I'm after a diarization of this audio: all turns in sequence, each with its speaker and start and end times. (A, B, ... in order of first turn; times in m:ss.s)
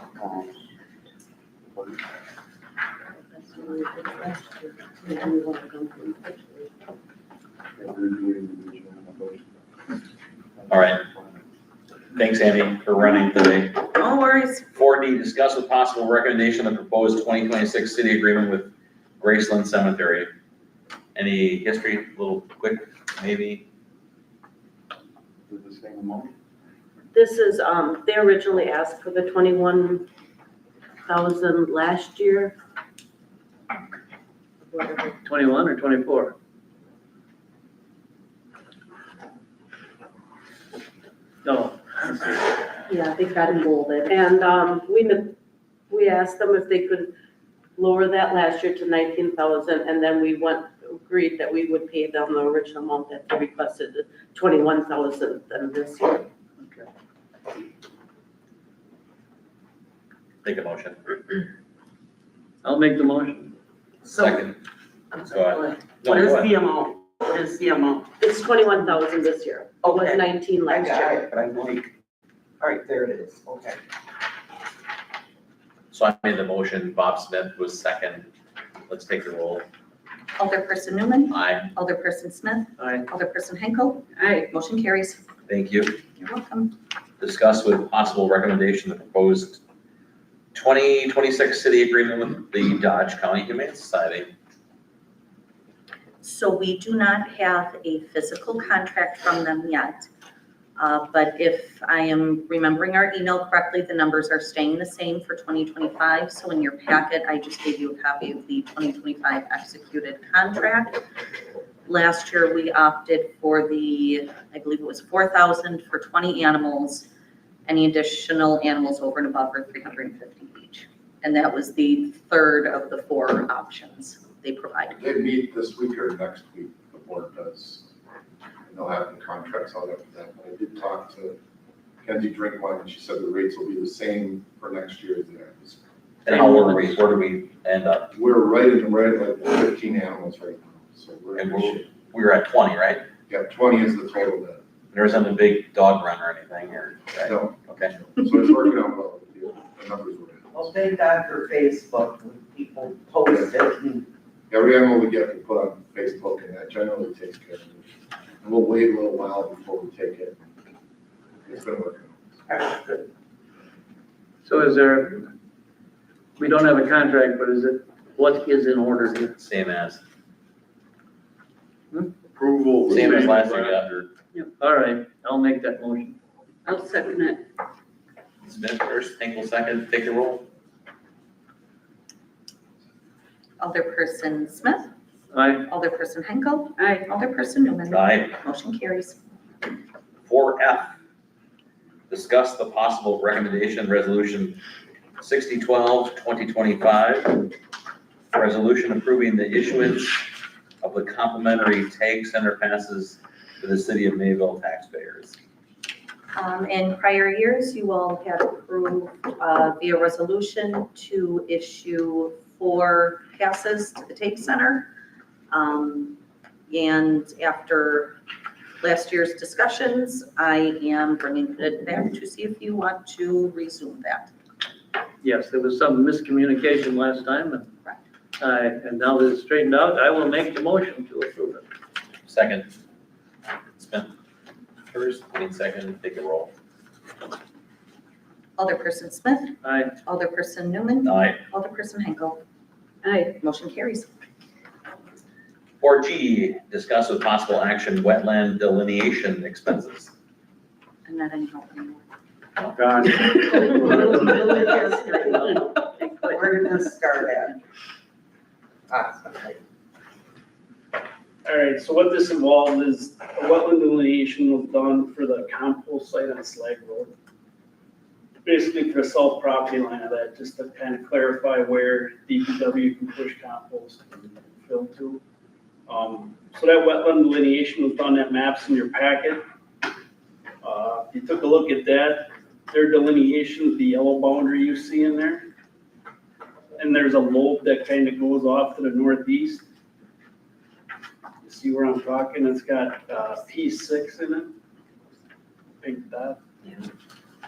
0:03.3-0:06.8 A
0:07.8-0:09.4 B
0:10.7-0:11.0 C
0:12.2-0:13.8 C
0:13.9-0:14.7 D
0:14.7-0:20.3 C
0:21.2-0:23.6 C
0:25.5-0:26.3 B
0:27.1-0:30.0 A
0:31.1-0:32.6 A
0:34.7-0:35.1 A
0:35.2-0:36.4 E
0:41.4-0:42.5 E
0:42.9-0:45.3 A
0:43.7-0:44.0 D
0:45.9-0:47.1 A
0:47.8-0:56.3 A
0:56.6-0:56.9 E
1:00.4-1:01.0 C
1:02.6-1:03.5 E
1:04.0-1:04.4 F
1:04.1-1:04.6 C
1:05.1-1:08.1 F
1:05.1-1:06.6 C
1:08.2-1:11.2 A
1:09.8-1:11.9 F
1:12.6-1:13.8 F
1:15.9-1:18.3 C
1:18.9-1:19.6 C
1:20.4-1:25.2 D
1:21.3-1:21.7 C
1:22.8-1:23.1 E
1:24.2-1:24.5 A
1:25.5-1:26.0 C
1:26.2-1:26.7 D
1:27.2-1:29.6 C
1:30.5-1:34.3 C
1:36.2-1:40.1 D
1:40.8-1:51.0 D
1:51.9-1:57.1 D
1:57.7-2:05.0 D
2:05.0-2:07.9 G
2:08.7-2:11.4 G
2:12.0-2:15.8 G
2:16.2-2:18.1 C
2:16.3-2:17.0 E
2:18.1-2:21.9 G
2:21.4-2:23.0 C
2:23.3-2:24.6 G
2:24.9-2:27.9 C
2:27.2-2:30.7 G
2:30.5-2:34.0 F
2:33.3-2:33.5 G
2:34.5-2:37.9 G
2:38.4-2:40.4 G
2:41.4-2:42.2 G
2:42.5-2:43.1 F
2:44.4-2:45.3 E
2:46.4-2:49.4 E
2:49.4-2:50.0 C
2:52.9-2:54.1 C
2:52.9-2:53.3 E
2:54.6-2:56.2 E
2:56.7-2:57.4 A
2:58.4-3:00.4 C
3:03.6-3:04.9 D
3:05.3-3:05.7 E
3:05.7-3:09.2 D
3:06.8-3:07.1 A
3:07.9-3:08.4 C
3:10.3-3:10.9 C
3:12.1-3:14.6 C
3:15.2-3:17.5 C
3:18.3-3:20.3 C
3:20.8-3:25.4 C
3:26.3-3:34.9 D
3:35.5-3:38.2 D
3:38.8-3:44.3 D
3:45.2-3:47.7 E
3:48.4-3:51.6 E
3:52.3-3:52.7 C
3:53.8-3:54.1 C
3:54.9-3:56.5 C
3:58.6-4:02.4 D
3:59.6-4:00.0 E
4:01.0-4:01.4 C
4:03.0-4:03.4 A
4:03.4-4:04.1 D
4:05.8-4:10.1 C
4:11.0-4:12.0 D
4:13.0-4:14.4 H
4:13.4-4:17.6 F
4:18.9-4:19.6 F
4:21.4-4:27.1 H
4:28.4-4:35.2 H
4:35.9-4:39.4 H
4:40.6-4:45.5 H
4:46.8-4:49.6 H
4:51.4-4:54.5 H
4:55.8-4:56.4 H